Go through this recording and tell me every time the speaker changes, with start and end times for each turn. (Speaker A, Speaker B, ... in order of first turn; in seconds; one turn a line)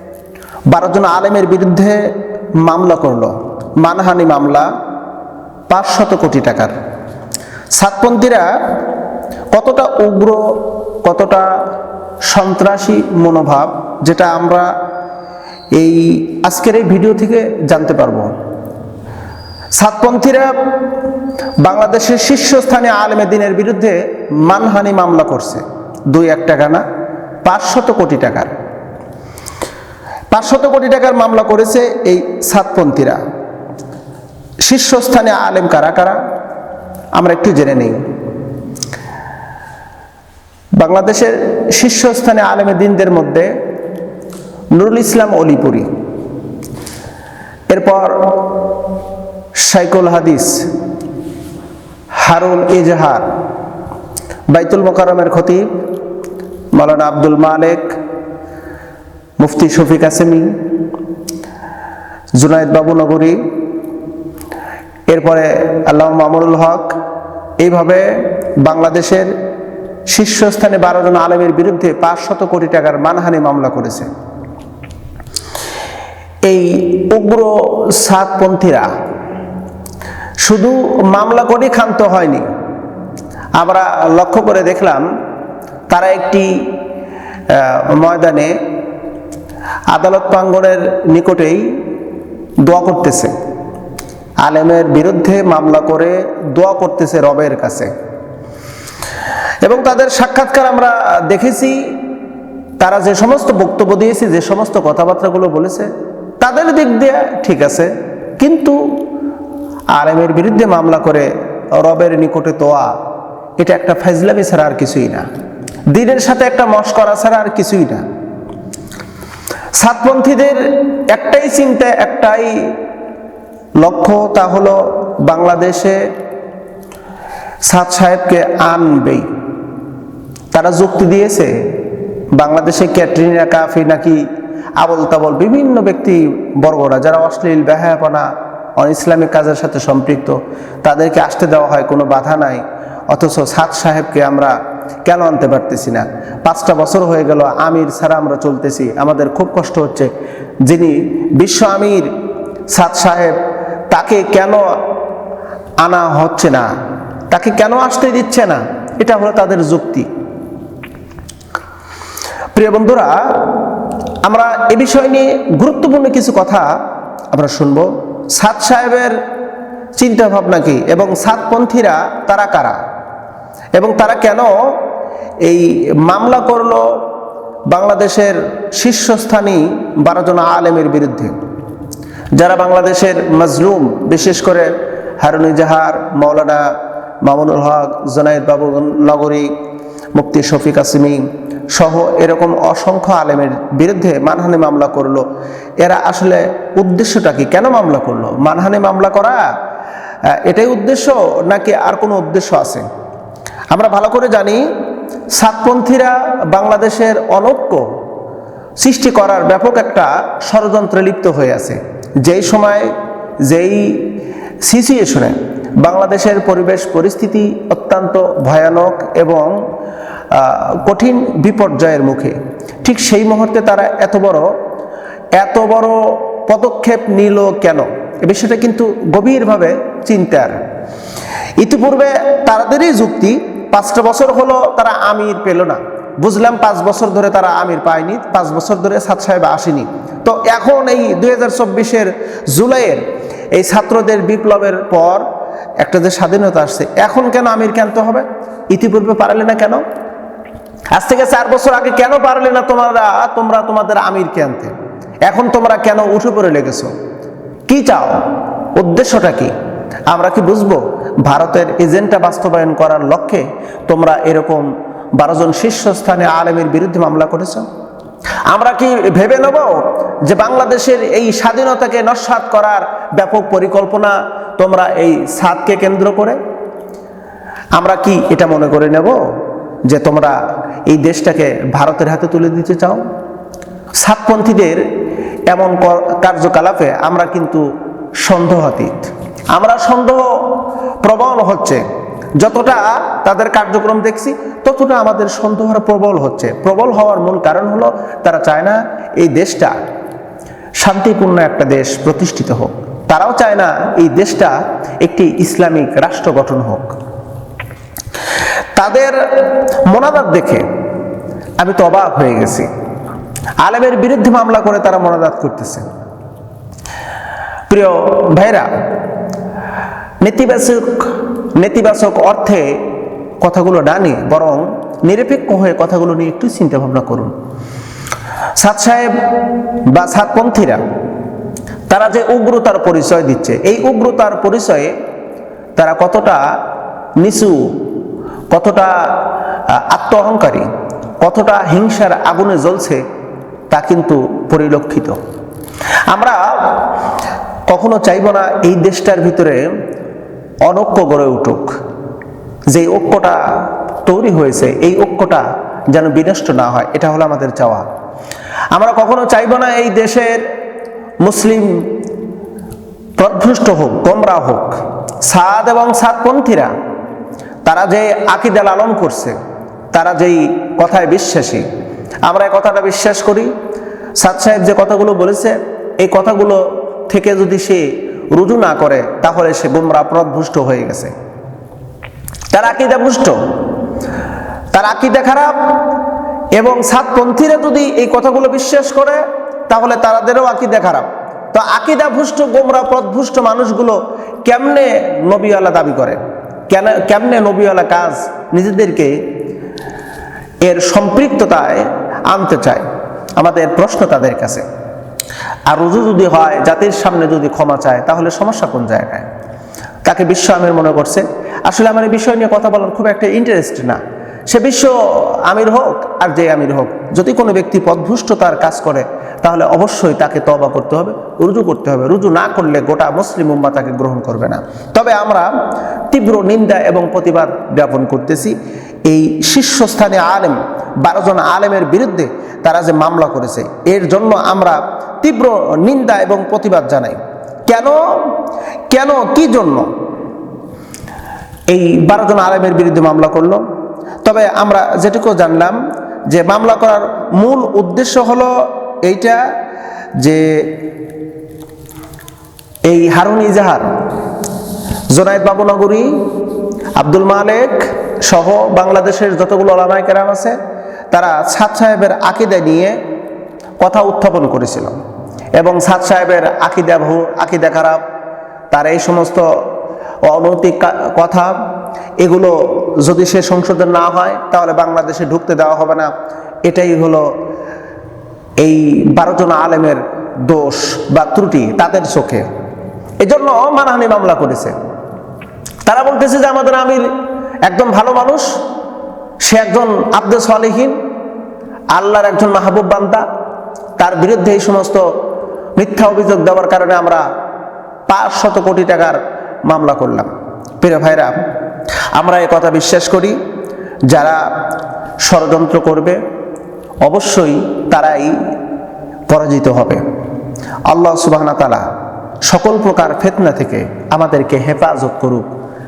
Speaker A: 0.7-2.1
Speaker A: 2.6-4.7
Speaker A: 5.7-6.7
Speaker A: 7.8-8.5
Speaker A: 9.5-10.4
Speaker A: 11.0-11.5
Speaker A: 12.3-14.7
Speaker A: 15.8-18.3
Speaker A: 19.8-20.5
Speaker A: 21.6-26.8
Speaker A: 27.4-28.5
Speaker A: 30.3-33.2
Speaker A: 34.6-36.2
Speaker A: 37.1-38.0
Speaker A: 40.8-43.5
Speaker A: 44.7-45.9
Speaker A: 47.7-48.6
Speaker A: 49.6-50.7
Speaker A: 52.2-53.3
Speaker A: 54.5-55.7
Speaker A: 56.7-58.0
Speaker A: 59.4-60.5
Speaker A: 62.4-63.4
Speaker A: 65.1-66.9
Speaker A: 67.6-68.1
Speaker A: 68.6-69.3
Speaker A: 70.1-74.1
Speaker A: 76.4-78.9
Speaker A: 80.4-82.5
Speaker A: 83.6-85.0
Speaker A: 85.9-86.6
Speaker A: 87.5-88.5
Speaker A: 89.9-91.7
Speaker A: 92.6-93.3
Speaker A: 94.4-97.9
Speaker A: 99.6-101.8
Speaker A: 102.8-105.9
Speaker A: 106.4-108.8
Speaker A: 109.9-111.3
Speaker A: 111.8-112.9
Speaker A: 113.6-115.3
Speaker A: 115.9-118.0
Speaker A: 119.8-122.8
Speaker A: 123.8-126.1
Speaker A: 127.7-129.2
Speaker A: 130.5-131.5
Speaker A: 132.3-134.2
Speaker A: 134.8-150.1
Speaker A: 150.6-152.1
Speaker A: 152.7-153.3
Speaker A: 153.9-154.6
Speaker A: 155.8-156.7
Speaker A: 157.3-160.1
Speaker A: 162.5-163.6
Speaker A: 164.2-166.7
Speaker A: 167.3-169.2
Speaker A: 169.9-172.8
Speaker A: 173.8-174.5
Speaker A: 175.4-177.0
Speaker A: 177.7-181.3
Speaker A: 182.3-184.7
Speaker A: 185.2-186.6
Speaker A: 187.2-189.5
Speaker A: 190.1-195.2
Speaker A: 195.8-199.4
Speaker A: 200.4-202.8
Speaker A: 203.7-204.6
Speaker A: 205.3-207.8
Speaker A: 208.8-212.9
Speaker A: 213.4-214.1
Speaker A: 214.6-219.6
Speaker A: 220.3-224.5
Speaker A: 225.4-230.6
Speaker A: 231.6-245.2
Speaker A: 245.8-249.8
Speaker A: 250.9-254.7
Speaker A: 255.2-256.9
Speaker A: 257.7-258.2
Speaker A: 258.7-259.5
Speaker A: 260.1-267.6
Speaker A: 268.5-276.4
Speaker A: 277.8-279.2
Speaker A: 279.9-283.0
Speaker A: 284.0-284.8
Speaker A: 285.5-287.6
Speaker A: 288.2-291.8
Speaker A: 292.4-299.8
Speaker A: 300.8-306.9
Speaker A: 308.8-310.6
Speaker A: 311.6-312.7
Speaker A: 313.6-315.8
Speaker A: 317.7-318.7
Speaker A: 320.2-322.8
Speaker A: 323.4-327.3
Speaker A: 328.6-330.8
Speaker A: 331.9-334.9
Speaker A: 335.8-336.4
Speaker A: 337.2-337.6
Speaker A: 338.5-340.7
Speaker A: 341.2-343.0
Speaker A: 343.7-345.2
Speaker A: 346.1-346.9
Speaker A: 347.7-349.6
Speaker A: 350.6-351.7
Speaker A: 352.7-353.4
Speaker A: 354.1-357.8
Speaker A: 358.7-360.4
Speaker A: 361.2-361.7
Speaker A: 363.2-366.7
Speaker A: 367.6-369.4
Speaker A: 369.9-371.6
Speaker A: 372.2-373.5
Speaker A: 374.2-381.1
Speaker A: 382.5-383.4
Speaker A: 384.7-386.0
Speaker A: 386.5-399.1
Speaker A: 400.6-402.8
Speaker A: 403.4-404.6
Speaker A: 405.7-409.2
Speaker A: 410.0-414.9
Speaker A: 415.4-425.5
Speaker A: 426.1-428.5
Speaker A: 429.1-438.4
Speaker A: 438.9-439.9
Speaker A: 441.7-443.6
Speaker A: 444.2-448.5
Speaker A: 449.0-449.4
Speaker A: 450.2-450.7
Speaker A: 452.9-453.9
Speaker A: 455.1-456.1
Speaker A: 457.0-460.6
Speaker A: 461.1-462.9
Speaker A: 463.8-464.9
Speaker A: 465.6-468.0
Speaker A: 468.7-469.5
Speaker A: 470.3-471.5
Speaker A: 472.2-476.1
Speaker A: 476.6-477.2
Speaker A: 478.6-482.4
Speaker A: 483.2-484.7
Speaker A: 485.9-487.1
Speaker A: 487.6-488.5
Speaker A: 489.4-490.9
Speaker A: 491.9-493.2
Speaker A: 494.0-495.0
Speaker A: 495.8-497.2
Speaker A: 498.1-501.4
Speaker A: 502.1-503.4
Speaker A: 504.1-504.4
Speaker A: 505.2-506.2
Speaker A: 507.0-508.4
Speaker A: 509.3-510.0
Speaker A: 510.9-511.9
Speaker A: 512.4-515.5